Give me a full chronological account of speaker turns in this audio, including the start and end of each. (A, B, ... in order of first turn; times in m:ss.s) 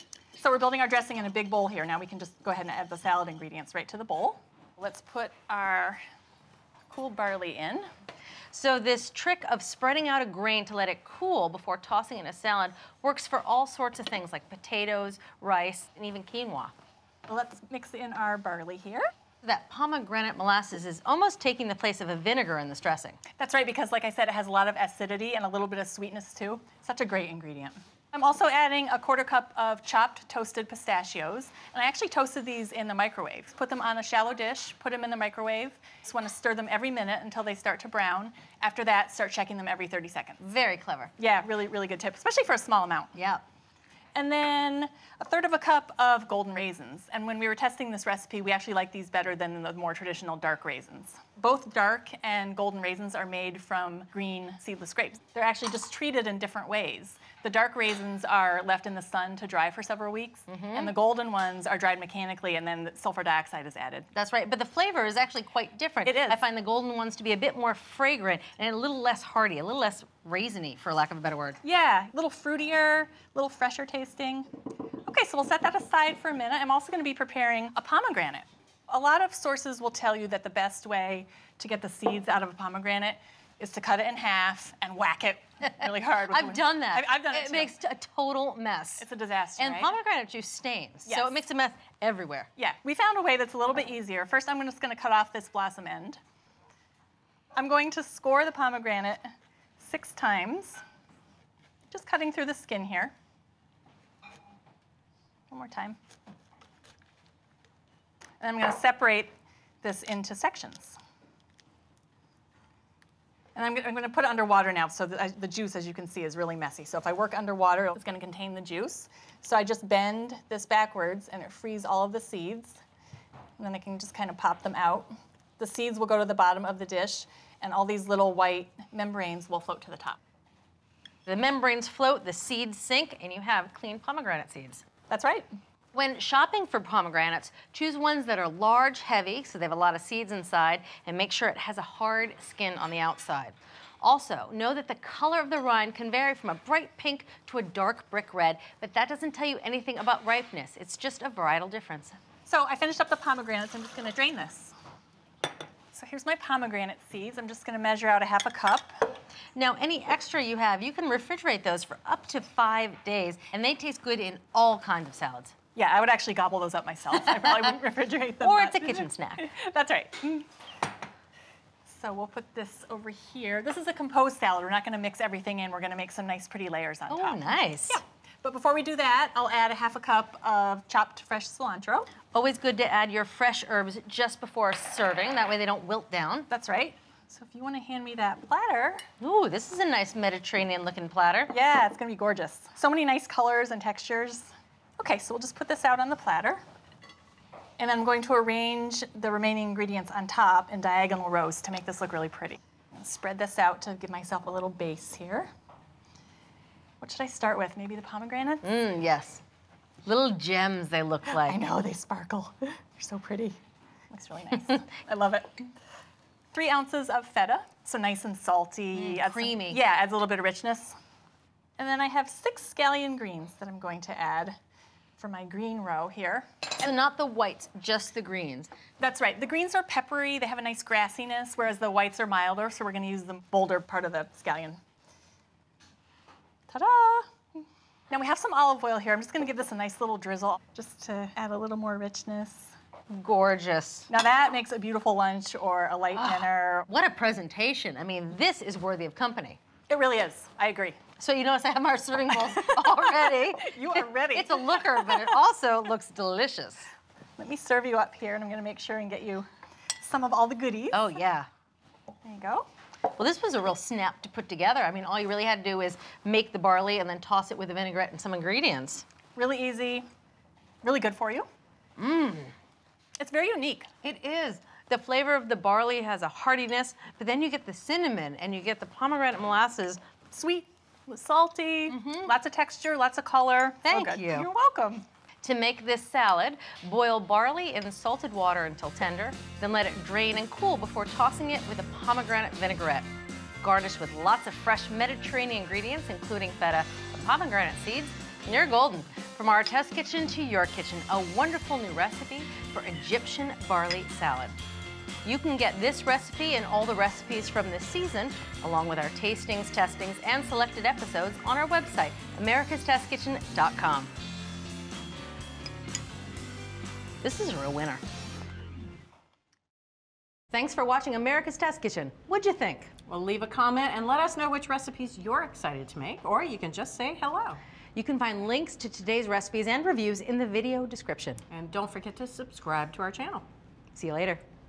0:00.4-0:06.0 A
0:06.9-0:07.9 A
0:08.5-0:16.7 B
0:17.3-0:19.1 A
0:19.4-0:23.2 B
0:23.4-0:40.4 A
0:40.4-0:41.1 B
0:41.2-0:43.1 A
0:43.2-0:43.4 B
0:44.2-1:04.1 A
1:00.5-1:00.9 B
1:04.2-1:11.6 B
1:06.0-1:06.4 A
1:11.6-1:14.5 A
1:15.0-1:27.7 A
1:26.3-1:29.1 B
1:29.0-1:30.0 A
1:29.6-1:32.5 B
1:31.1-1:31.4 A
1:32.6-1:36.2 A
1:37.6-1:39.2 A
1:39.8-1:40.8 A
1:41.9-1:43.1 A
1:45.5-1:46.0 A
1:48.4-1:51.0 A
1:53.6-2:02.8 A
2:03.6-2:10.2 A
2:11.3-2:14.8 B
2:15.1-2:15.5 A
2:15.9-2:32.2 B
2:32.5-2:34.8 A
2:35.9-2:39.0 A
2:39.5-2:45.6 B
2:45.8-2:50.5 A
2:47.3-2:47.6 B
2:48.4-2:49.5 B
2:51.9-3:02.1 A
2:57.1-2:58.0 B
3:02.3-3:06.5 B
3:06.5-3:09.0 A
3:09.2-3:11.5 B
3:11.5-3:16.6 A
3:17.8-3:25.5 A
3:27.0-3:28.6 A
3:28.6-3:29.4 B
3:30.0-3:31.6 B
3:31.3-3:33.6 A
3:34.1-3:35.7 A
3:36.5-3:41.0 A
3:38.9-3:39.8 B
3:41.8-3:44.6 A
3:45.2-3:46.5 A
3:46.8-3:48.7 B
3:49.0-3:54.8 A
3:56.7-3:57.3 A
3:58.1-4:02.7 A
4:03.1-4:04.1 B
4:04.1-4:06.9 A
4:06.2-4:09.6 B
4:09.9-4:11.0 A
4:11.2-4:16.9 B
4:12.3-4:15.3 A
4:17.4-4:19.5 A
4:20.0-4:21.1 A
4:20.9-4:21.5 B
4:22.2-4:22.7 A
4:23.1-4:29.0 B
4:29.4-4:30.1 A
4:30.8-4:31.5 A
4:32.0-4:32.5 B
4:33.2-4:33.9 A
4:34.0-4:40.0 B
4:40.3-4:45.0 A
4:41.9-4:42.3 B
4:43.9-4:44.5 B
4:45.4-4:53.1 B
4:53.6-5:04.6 B
5:05.2-5:14.1 B
5:17.2-5:18.0 B
5:20.5-5:22.9 B
5:23.1-5:27.6 C
5:28.0-5:31.4 B
5:31.5-5:33.5 C
5:34.0-5:34.4 B